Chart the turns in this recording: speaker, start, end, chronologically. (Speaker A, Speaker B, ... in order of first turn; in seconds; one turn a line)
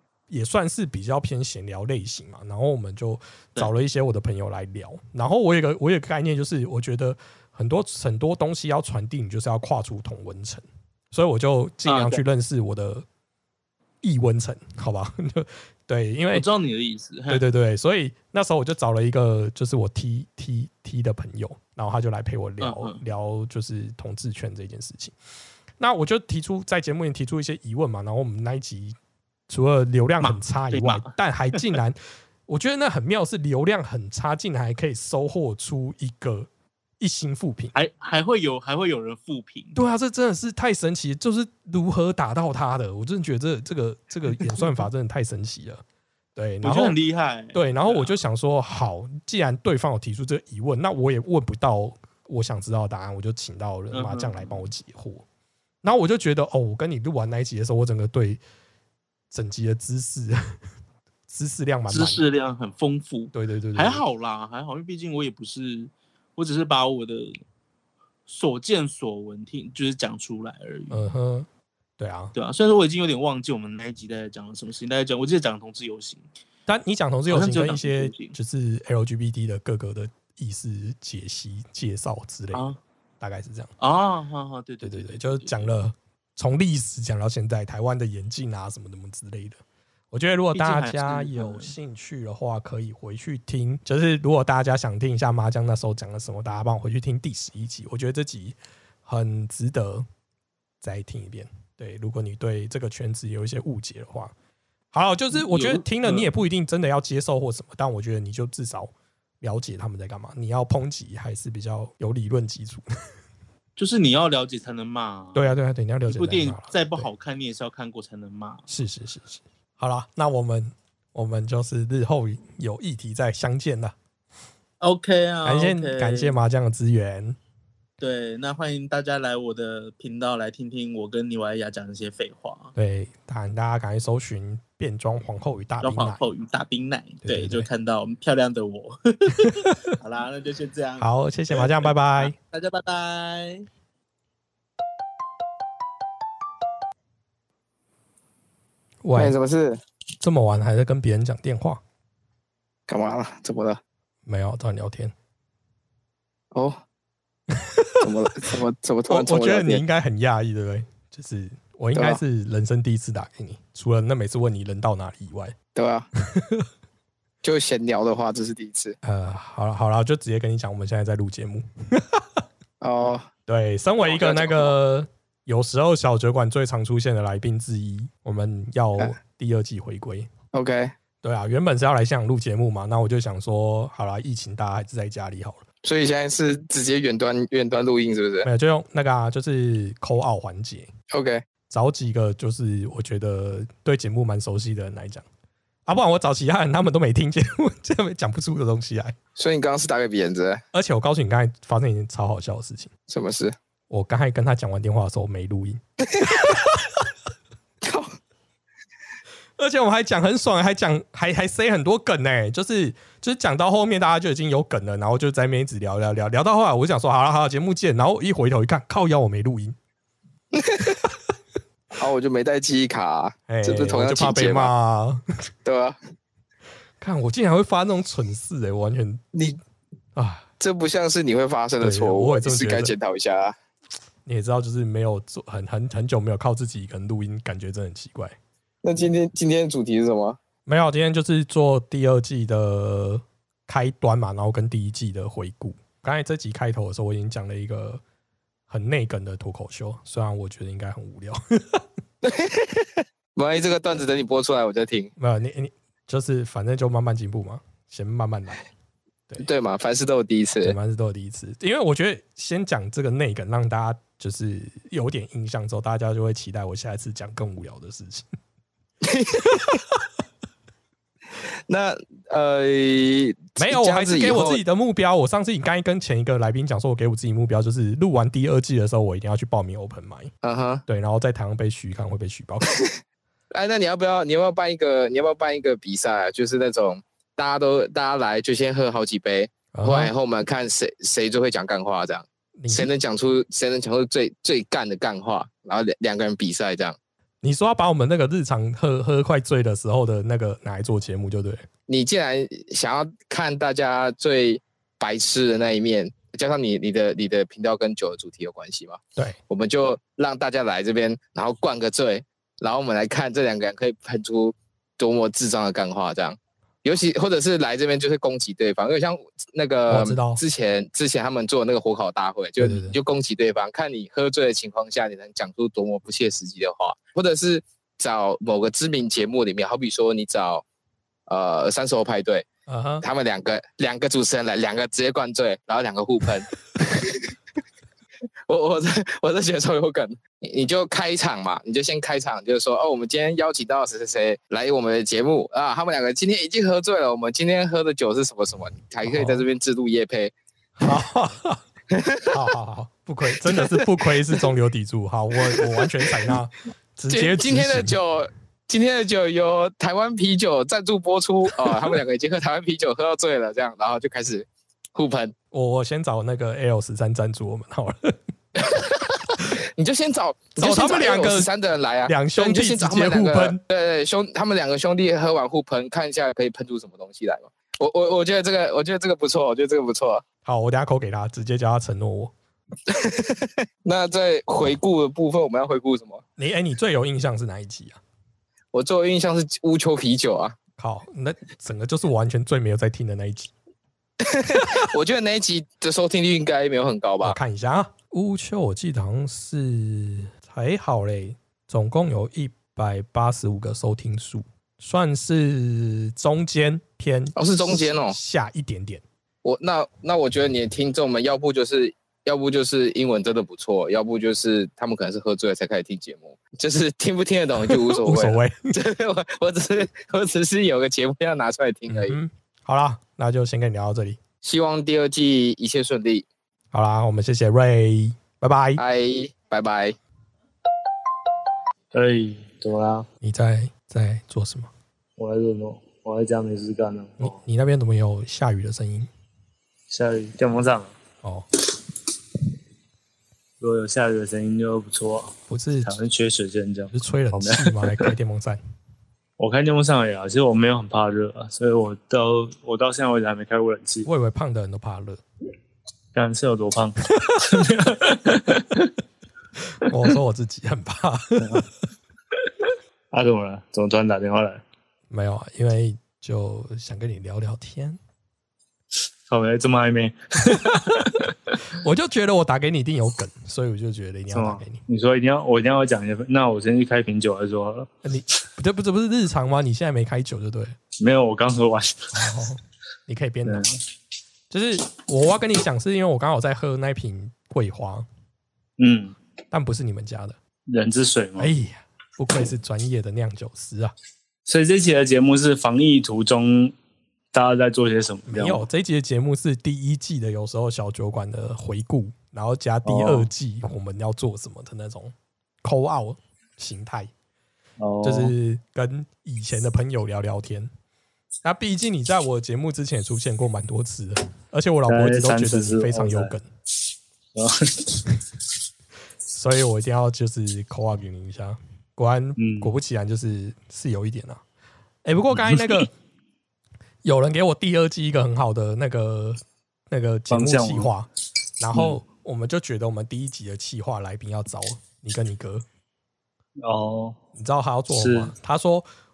Speaker A: 0.3-13.1
Speaker B: 11.9-12.2
Speaker A: 14.0-16.5
Speaker B: 16.3-17.4
Speaker A: 17.3-25.1
Speaker B: 22.6-23.0
Speaker A: 25.8-28.9
Speaker A: 29.5-36.5
Speaker B: 30.2-31.1
Speaker A: 37.0-37.7
Speaker B: 37.7-39.8
Speaker A: 39.7-45.8
Speaker A: 46.4-47.0
Speaker B: 46.6-48.1
Speaker A: 47.5-55.2
Speaker B: 53.9-54.6
Speaker A: 55.8-58.4
Speaker A: 59.3-60.4
Speaker A: 61.3-62.2
Speaker B: 61.9-67.4
Speaker A: 63.3-64.0
Speaker B: 68.3-71.1
Speaker A: 70.9-71.5
Speaker A: 72.0-72.3
Speaker B: 72.3-76.3
Speaker A: 76.7-83.7
Speaker B: 77.3-78.4
Speaker B: 82.5-82.8
Speaker B: 83.8-85.7
Speaker A: 84.8-89.6
Speaker A: 90.1-100.1
Speaker B: 90.5-91.8
Speaker A: 100.8-104.3
Speaker A: 104.9-112.8
Speaker B: 105.3-106.3
Speaker B: 113.8-115.5
Speaker A: 115.3-117.1
Speaker B: 116.1-118.7
Speaker A: 118.7-124.0
Speaker B: 124.8-126.3
Speaker A: 125.5-127.4
Speaker B: 128.0-132.7
Speaker A: 132.8-136.2
Speaker B: 135.8-143.7
Speaker A: 137.2-137.7
Speaker A: 139.4-139.7
Speaker A: 141.0-142.4
Speaker A: 149.0-149.3
Speaker C: 149.2-149.8
Speaker A: 150.2-151.8
Speaker C: 152.9-153.8
Speaker A: 154.3-155.1
Speaker C: 156.5-156.8
Speaker C: 158.0-159.8
Speaker A: 158.0-158.5
Speaker A: 159.1-165.6
Speaker C: 161.9-162.2
Speaker C: 165.7-166.1
Speaker A: 166.3-166.6
Speaker C: 167.4-169.0
Speaker A: 169.0-172.2
Speaker C: 172.8-173.3
Speaker A: 173.5-180.3
Speaker C: 174.0-174.8
Speaker C: 180.5-180.9
Speaker A: 181.2-185.6
Speaker C: 185.8-188.5
Speaker A: 188.4-190.9
Speaker C: 191.1-191.4
Speaker A: 191.7-195.2
Speaker A: 195.9-199.2
Speaker C: 199.4-200.6
Speaker A: 200.7-202.9
Speaker C: 203.1-203.5
Speaker A: 203.9-206.8
Speaker C: 207.8-208.1
Speaker A: 209.6-219.8
Speaker C: 220.5-220.9
Speaker C: 221.9-224.7
Speaker A: 223.5-225.2
Speaker C: 225.7-226.0
Speaker A: 227.0-229.2
Speaker A: 230.2-230.5
Speaker C: 230.6-233.5
Speaker A: 231.8-232.9
Speaker A: 234.3-238.4
Speaker C: 238.8-240.4
Speaker A: 240.7-248.0
Speaker A: 248.7-251.8
Speaker C: 252.2-255.1
Speaker A: 255.2-258.6
Speaker C: 259.4-260.8
Speaker A: 260.6-268.2
Speaker C: 269.0-269.6
Speaker C: 271.7-274.6
Speaker A: 273.6-280.3
Speaker C: 280.4-280.8
Speaker A: 280.9-282.8
Speaker C: 283.5-297.0
Speaker A: 289.7-290.1
Speaker A: 292.6-292.9
Speaker A: 297.4-301.7
Speaker C: 301.9-330.6
Speaker A: 319.9-320.4
Speaker A: 322.6-323.0
Speaker C: 331.3-332.5
Speaker A: 332.7-333.1
Speaker C: 333.0-337.3
Speaker C: 338.5-350.3
Speaker A: 349.0-349.4
Speaker A: 350.8-351.6
Speaker C: 351.9-352.3
Speaker A: 352.3-358.0
Speaker C: 353.4-353.9
Speaker C: 355.4-356.3
Speaker C: 357.1-365.3
Speaker A: 361.6-361.9
Speaker A: 365.5-368.2
Speaker C: 368.6-369.0
Speaker C: 369.8-380.2
Speaker A: 370.6-371.5
Speaker A: 372.1-373.6
Speaker A: 380.4-382.3
Speaker C: 382.9-386.2
Speaker A: 386.4-388.0
Speaker C: 388.7-390.6
Speaker A: 390.8-393.5
Speaker C: 394.2-397.4
Speaker A: 397.2-409.0
Speaker C: 407.4-408.2
Speaker C: 409.4-422.2
Speaker A: 417.6-418.7
Speaker A: 421.9-424.2
Speaker C: 424.4-426.3
Speaker A: 426.7-428.8
Speaker C: 428.8-430.0
Speaker D: 431.9-433.1
Speaker A: 433.2-434.7
Speaker D: 435.2-437.4
Speaker A: 437.2-439.1
Speaker D: 439.9-440.9
Speaker D: 443.6-448.1
Speaker A: 445.5-446.0
Speaker A: 446.9-448.6
Speaker D: 449.4-454.1
Speaker A: 454.1-455.2
Speaker D: 456.1-458.9
Speaker A: 459.8-461.6
Speaker D: 461.4-461.7
Speaker D: 463.1-464.6
Speaker A: 465.1-468.0
Speaker D: 469.3-471.3
Speaker A: 471.8-474.8
Speaker D: 474.3-477.9
Speaker A: 478.0-480.8
Speaker D: 481.0-482.1
Speaker A: 482.1-483.6
Speaker D: 483.5-483.7
Speaker A: 484.5-488.1
Speaker D: 488.8-489.2
Speaker A: 489.5-490.4
Speaker D: 490.7-491.5
Speaker A: 491.4-493.9
Speaker D: 494.5-496.7
Speaker D: 497.3-498.6
Speaker A: 498.3-505.1
Speaker D: 502.9-503.3
Speaker A: 505.6-507.1
Speaker D: 507.8-508.3
Speaker A: 508.0-510.7
Speaker A: 511.4-516.5
Speaker D: 514.9-516.3
Speaker D: 517.4-518.0
Speaker A: 519.3-524.4
Speaker D: 522.4-522.7
Speaker A: 525.0-525.9
Speaker D: 525.5-525.8
Speaker A: 527.0-535.7
Speaker D: 530.3-530.9
Speaker D: 531.7-532.0
Speaker D: 536.6-537.2
Speaker A: 537.4-538.9
Speaker D: 537.9-538.3